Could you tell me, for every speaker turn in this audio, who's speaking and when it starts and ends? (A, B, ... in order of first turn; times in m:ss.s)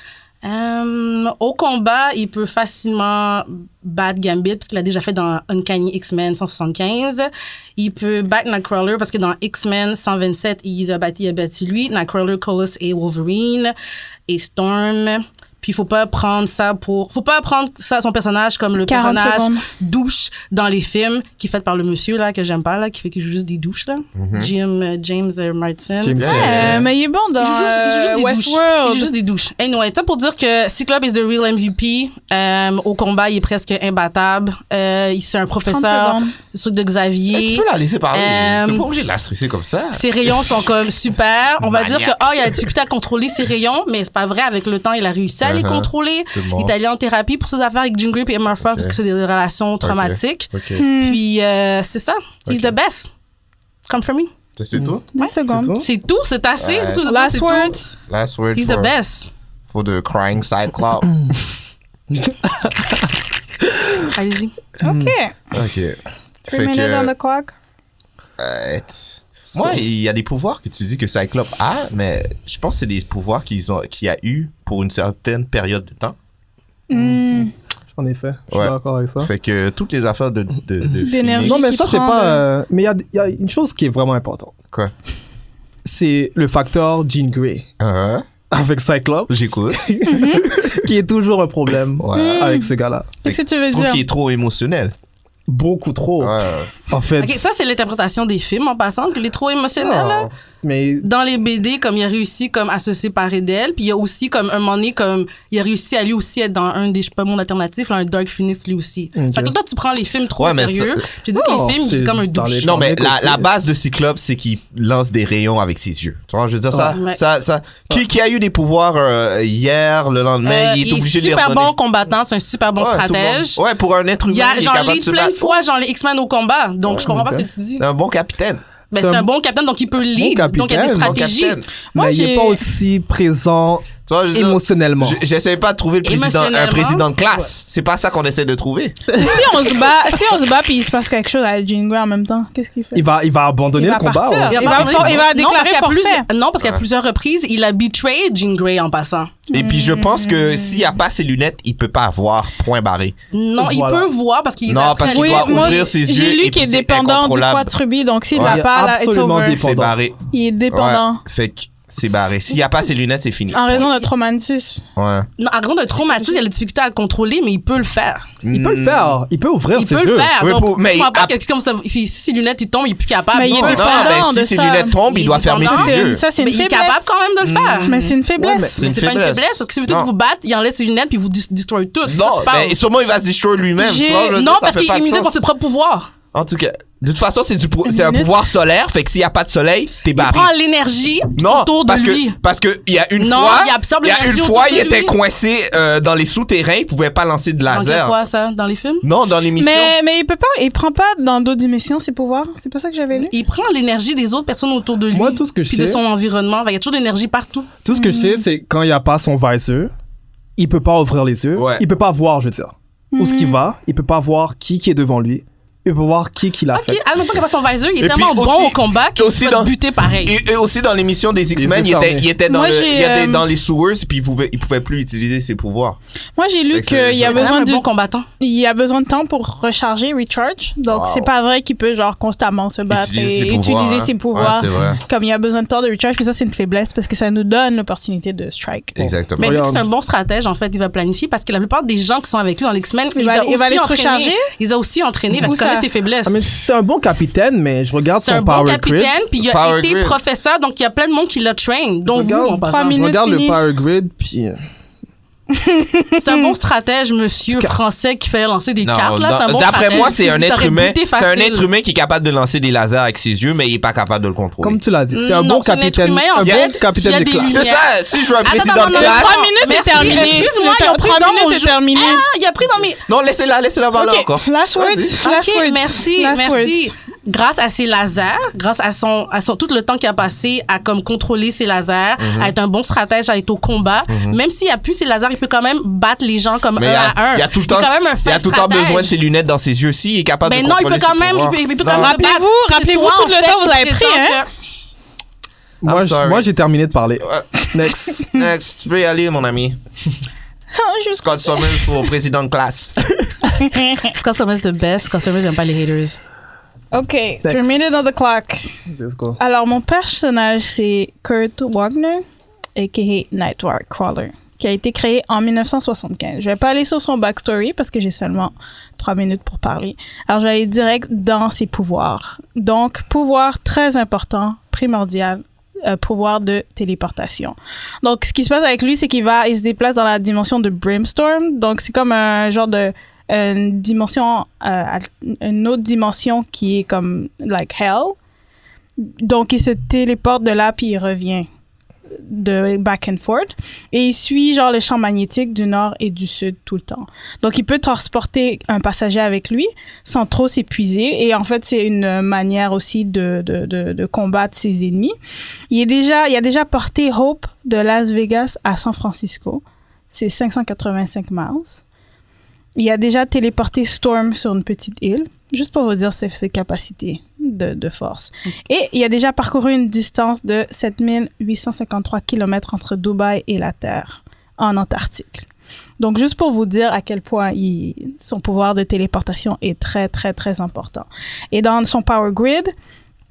0:00.4-0:13.7 A
0:14.3-0:26.7 A
0:18.8-0:19.6 B
0:24.2-0:24.5 C
0:26.0-0:26.9 D
0:26.2-0:26.8 C
0:26.2-0:29.1 B
0:27.4-0:38.9 A
0:35.7-0:36.4 B
0:37.3-0:40.6 C
0:39.9-0:53.1 A
0:41.6-0:42.7 C
0:45.4-0:46.7 C
0:48.6-0:49.0 C
0:49.8-0:50.8 C
0:50.8-0:51.2 B
0:52.5-0:52.7 C
0:53.9-0:54.3 A
0:54.6-0:55.1 C
0:54.8-0:55.9 D
0:55.2-0:55.8 B
0:55.2-0:57.8 A
0:56.6-0:57.0 C
0:57.0-0:57.9 B
0:58.1-0:58.9 C
0:58.6-0:59.3 A
0:59.7-1:01.1 C
1:02.2-1:03.0 D
1:03.7-1:04.1 D
1:04.1-1:04.6 A
1:04.8-1:05.2 D
1:04.8-1:05.4 B
1:05.5-1:06.0 C
1:06.5-1:07.5 B
1:06.5-1:07.1 C
1:08.4-1:16.2 C
1:09.5-1:09.8 D
1:16.9-1:17.5 B
1:16.9-1:19.3 D
1:18.5-1:21.7 C
1:21.0-1:22.4 B
1:21.4-1:24.6 D
1:25.8-1:27.7 D
1:27.8-1:28.3 C
1:28.5-1:33.1 D
1:29.3-1:29.9 C
1:30.1-1:30.4 B
1:32.0-1:32.5 C
1:32.1-1:32.7 B
1:33.2-1:34.0 B
1:33.2-1:34.9 C
1:35.5-1:36.4 D
1:36.2-1:36.7 C
1:36.9-1:37.4 D
1:37.2-1:40.3 A
1:39.8-1:41.1 D
1:41.0-1:52.7 A
1:49.2-1:49.5 D
1:50.4-1:51.0 C
1:51.3-1:53.5 D
1:52.6-2:01.7 C
1:56.7-1:57.0 D
1:56.9-1:57.2 A
2:00.4-2:03.6 A
2:02.8-2:05.6 C
2:04.3-2:07.9 A
2:07.0-2:07.4 D
2:07.8-2:08.6 C
2:08.9-2:11.6 A
2:08.9-2:09.3 D
2:10.2-2:11.2 D
2:11.0-2:11.7 C
2:11.9-2:12.6 B
2:12.0-2:15.2 D
2:14.1-2:19.0 C
2:16.0-2:17.1 A
2:19.2-2:23.0 B
2:22.9-2:25.3 D
2:23.7-2:26.2 B
2:24.5-2:29.4 A
2:29.5-2:30.9 B
2:29.5-2:33.2 C
2:33.3-2:35.9 A
2:33.6-2:34.1 D
2:34.7-2:37.7 C
2:35.1-2:39.6 B
2:38.3-2:38.6 C
2:38.4-2:40.0 D
2:39.5-2:44.0 C
2:40.3-2:41.2 B
2:43.5-2:44.8 B
2:45.0-2:45.3 C
2:45.4-2:48.3 A
2:48.4-2:49.2 C
2:48.5-2:50.3 D
2:49.8-2:54.2 A
2:50.4-2:51.4 C
2:53.3-2:55.0 B
2:53.4-2:53.9 D
2:53.7-2:56.2 C
2:55.1-2:58.1 A
2:55.6-2:57.1 B
2:57.4-2:58.0 C
2:57.9-2:58.8 B
2:58.4-2:58.8 D
2:58.8-3:00.1 C
2:58.8-3:02.8 A
3:02.1-3:05.4 C
3:03.8-3:04.4 B
3:04.2-3:06.1 A
3:06.3-3:10.5 C
3:07.9-3:08.3 B
3:10.1-3:12.4 A
3:11.3-3:18.2 C
3:13.2-3:15.1 A
3:17.7-3:19.1 A
3:19.0-3:20.0 C
3:19.6-3:23.3 B
3:23.2-3:27.7 A
3:25.1-3:26.0 D
3:27.8-3:29.9 D
3:27.9-3:28.4 B
3:30.6-3:37.0 D
3:31.6-3:31.8 C
3:33.1-3:33.6 B
3:36.7-3:40.4 A
3:38.0-3:39.7 C
3:40.2-3:46.0 C
3:41.6-3:42.3 D
3:42.5-3:43.4 B
3:46.4-3:47.8 B
3:46.7-3:47.5 C
3:47.3-3:48.3 A
3:48.4-3:59.0 B
3:50.9-3:51.3 C
3:52.9-3:55.0 C
3:59.0-3:59.6 C
3:59.0-3:59.8 D
3:59.4-4:06.4 A
4:03.2-4:04.4 B
4:05.4-4:05.9 B
4:06.2-4:09.1 D
4:08.2-4:13.0 A
4:09.4-4:10.2 C
4:12.1-4:14.6 D
4:12.6-4:13.6 B
4:15.6-4:16.3 B
4:16.2-4:21.7 A
4:17.5-4:17.8 D
4:18.8-4:24.8 C
4:24.6-4:27.6 D
4:25.1-4:33.0 A
4:26.4-4:26.8 C
4:27.5-4:30.4 C
4:28.8-4:32.2 B
4:33.1-4:35.2 C
4:34.0-4:36.9 B
4:35.2-4:49.2 A
4:42.2-4:42.5 C
4:44.1-4:44.4 C
4:46.8-4:52.2 C
4:50.4-4:54.5 A
4:51.9-4:54.4 B
4:55.8-4:58.3 D
4:55.8-4:56.5 C
4:58.3-4:59.8 C
5:00.7-5:02.1 B
5:01.2-5:03.4 C
5:03.6-5:04.1 B
5:04.1-5:06.2 A
5:06.9-5:08.7 B
5:07.4-5:08.0 D
5:08.9-5:09.4 D
5:09.4-5:12.2 B
5:12.8-5:38.2 B
5:39.0-5:41.5 B
5:42.2-5:55.2 B
5:55.7-6:01.8 B
6:02.8-6:15.5 B
6:16.0-6:22.7 B